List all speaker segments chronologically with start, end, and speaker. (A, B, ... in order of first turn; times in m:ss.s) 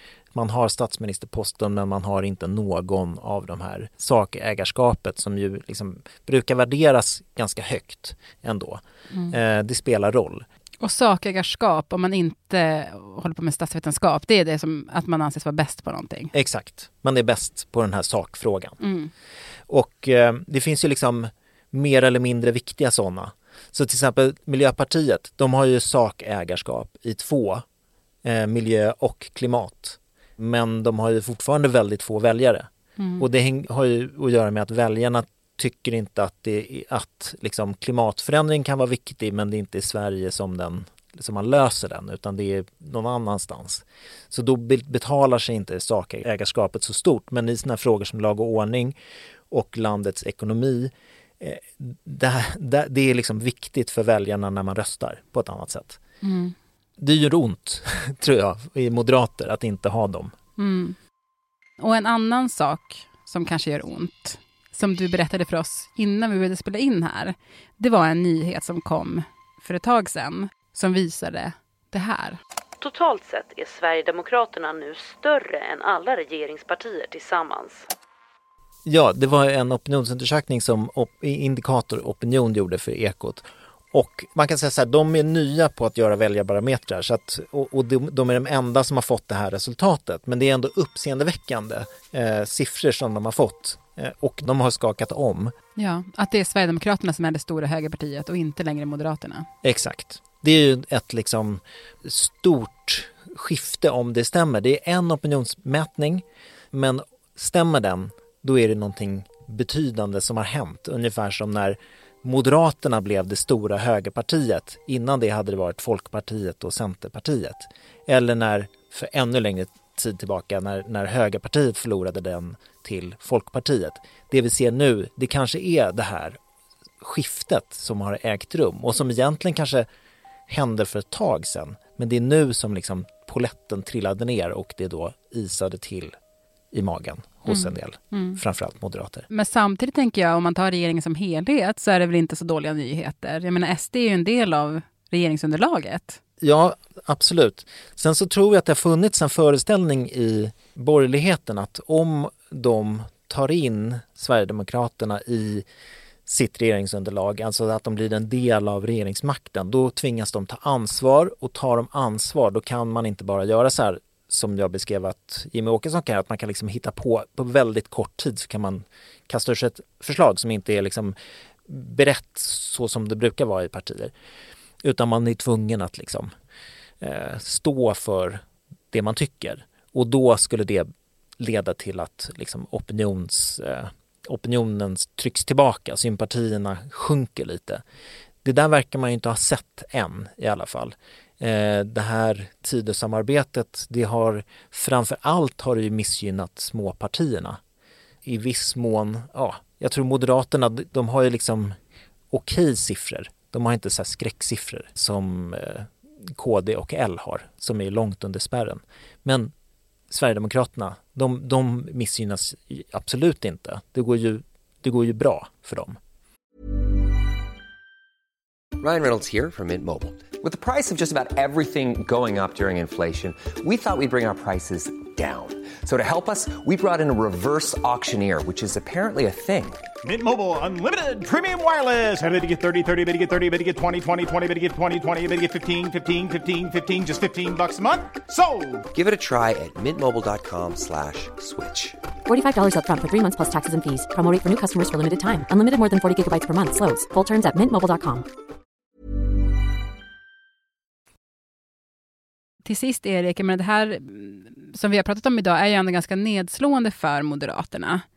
0:00.3-0:10.4 A
0:09.1-0:09.4 B
0:10.8-0:16.3 B
0:16.3-0:18.8 A
0:18.8-0:19.1 B
0:19.7-0:27.6 A
0:28.2-0:32.7 A
0:33.0-0:33.2 B
0:33.2-0:48.9 A
0:49.5-0:56.0 A
0:56.2-0:56.5 B
0:57.0-1:00.3 A
1:00.6-1:01.0 B
1:01.8-1:12.4 B
1:12.8-1:17.9 C
1:18.9-1:35.5 A
1:35.8-1:39.5 B
1:39.6-2:06.4 A
2:07.0-2:09.9 A
2:10.5-2:16.1 A
2:16.7-2:19.3 A
2:17.5-2:18.4 B
2:19.3-2:26.2 B
2:26.4-2:35.6 A
2:36.2-2:51.2 A
2:51.7-2:54.1 A
2:54.8-2:56.3 A
2:57.0-3:00.9 A
3:01.4-3:07.8 A
3:08.4-3:17.6 A
3:18.2-3:21.8 A
3:22.3-3:29.5 A
3:30.1-3:36.0 A
3:38.8-3:49.8 D
3:50.0-3:58.8 E
3:58.9-4:02.0 D
4:02.2-4:08.2 F
4:12.6-4:18.0 B